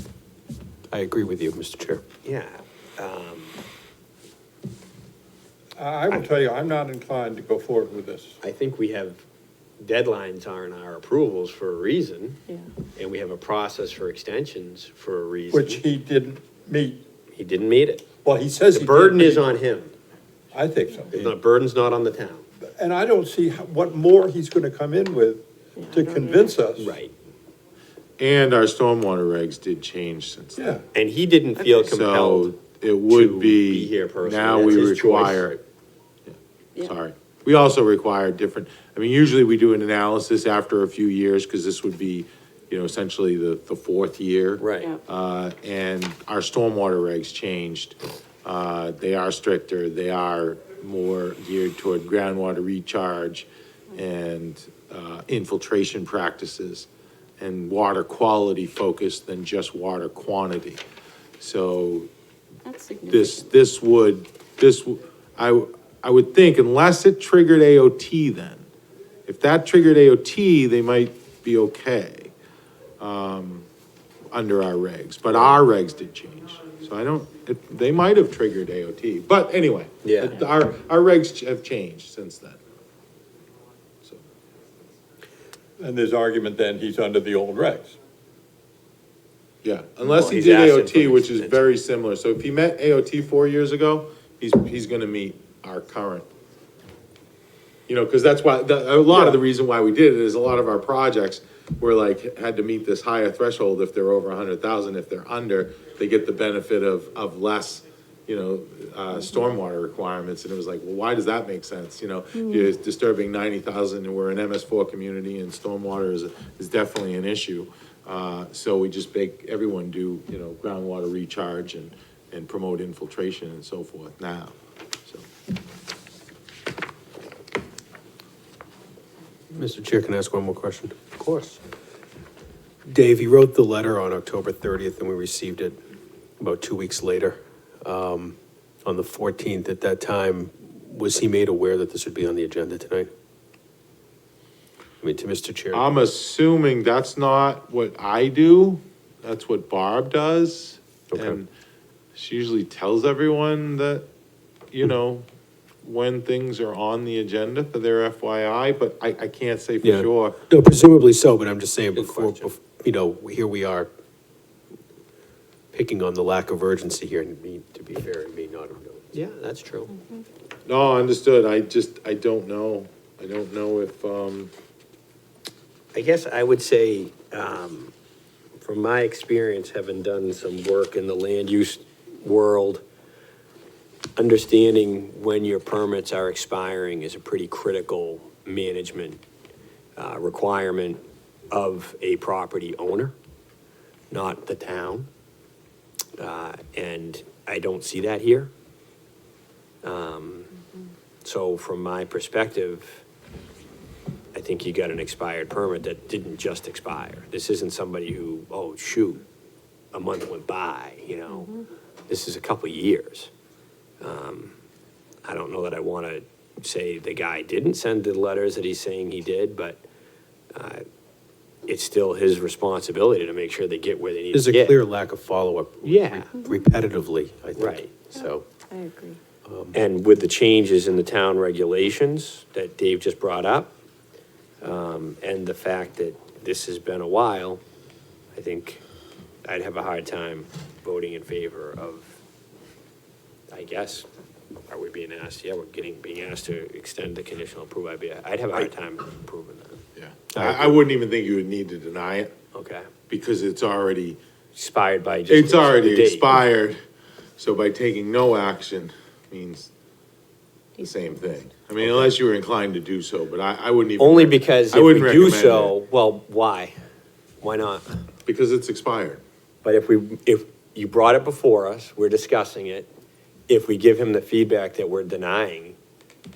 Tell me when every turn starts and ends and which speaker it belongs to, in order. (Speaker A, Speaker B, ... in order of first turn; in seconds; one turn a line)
Speaker A: 0.9-2.0
Speaker B: 2.2-3.5
Speaker C: 5.8-8.4
Speaker B: 8.4-9.2
Speaker B: 9.8-12.4
Speaker B: 12.9-15.8
Speaker C: 15.5-17.0
Speaker B: 17.3-18.1
Speaker C: 18.2-19.4
Speaker B: 18.7-19.9
Speaker C: 20.5-21.1
Speaker B: 21.1-22.4
Speaker C: 22.7-26.9
Speaker D: 25.8-26.6
Speaker B: 26.8-27.1
Speaker E: 28.2-30.6
Speaker C: 30.6-30.8
Speaker B: 30.9-32.5
Speaker E: 31.8-35.6
Speaker B: 33.1-35.6
Speaker E: 36.3-56.9
Speaker B: 44.6-44.9
Speaker E: 57.4-60.8
Speaker E: 61.4-62.1
Speaker D: 62.6-63.5
Speaker E: 63.1-68.7
Speaker E: 69.3-72.3
Speaker E: 73.0-73.7
Speaker E: 74.3-82.6
Speaker B: 75.3-75.6
Speaker B: 80.0-80.4
Speaker C: 85.8-88.0
Speaker E: 89.6-96.3
Speaker B: 90.0-91.7
Speaker E: 97.9-124.5
Speaker A: 129.5-131.6
Speaker A: 132.9-135.8
Speaker A: 136.4-143.1
Speaker A: 145.0-146.0
Speaker E: 145.7-151.5
Speaker A: 151.1-151.4
Speaker E: 152.1-154.1
Speaker E: 154.7-155.3
Speaker E: 155.8-160.4
Speaker A: 159.8-163.9
Speaker B: 161.9-162.5
Speaker A: 165.7-169.2
Speaker B: 169.1-169.9
Speaker E: 170.7-174.5
Speaker B: 175.9-177.9
Speaker B: 178.6-182.8
Speaker B: 184.2-189.2
Speaker B: 190.0-193.1
Speaker B: 194.1-195.1
Speaker B: 196.2-198.5
Speaker B: 199.8-200.5
Speaker B: 201.2-203.0
Speaker B: 204.3-209.2
Speaker B: 209.9-213.3
Speaker B: 214.0-214.6
Speaker B: 215.2-219.8
Speaker B: 220.5-220.8
Speaker B: 221.7-224.8
Speaker A: 224.3-228.4
Speaker B: 225.8-226.3
Speaker B: 227.6-228.0
Speaker D: 228.1-229.2
Speaker A: 229.4-229.8
Speaker B: 229.7-233.8
Speaker B: 234.6-237.6
Speaker B: 238.3-238.8
Speaker B: 239.4-242.1
Speaker B: 243.5-244.1
Speaker B: 244.7-249.8
Speaker E: 249.9-252.3
Speaker A: 250.3-250.8
Speaker B: 252.5-252.9
Speaker E: 253.1-254.2
Speaker B: 254.5-256.4
Speaker E: 255.3-256.8
Speaker E: 257.4-259.7
Speaker E: 260.8-265.7
Speaker B: 261.8-262.1
Speaker B: 264.0-266.7
Speaker B: 267.4-267.8
Speaker E: 268.2-269.2
Speaker B: 269.6-272.9
Speaker B: 273.5-275.8